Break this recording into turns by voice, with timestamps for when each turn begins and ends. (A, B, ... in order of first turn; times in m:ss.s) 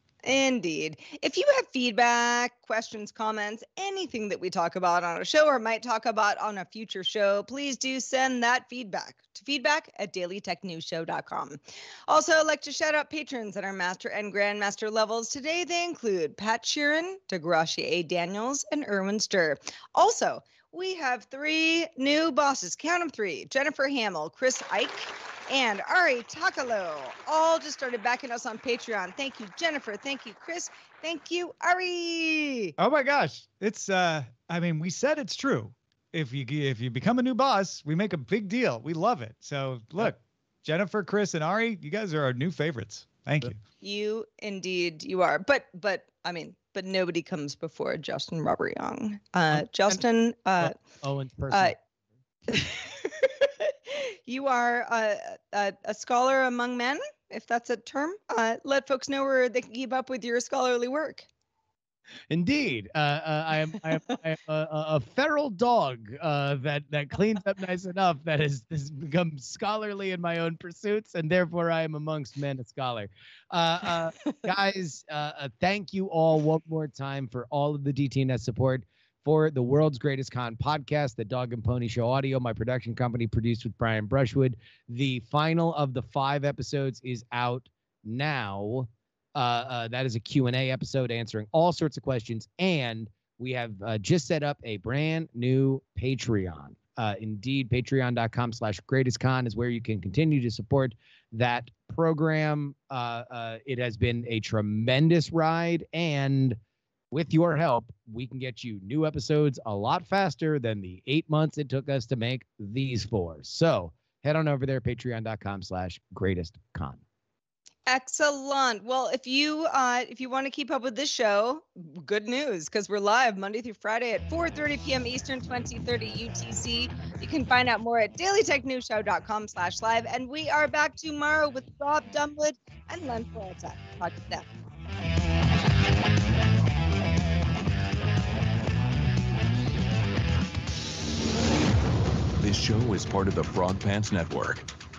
0:00.2-0:32.8 A
0:32.8-0:43.6 B
0:43.8-0:50.8 A
0:49.5-0:50.0 C
0:50.6-0:51.8 C
0:52.5-1:01.3 A
1:02.3-1:46.6 C
1:47.1-1:57.0 C
1:57.9-2:14.5 A
2:22.4-2:24.7 D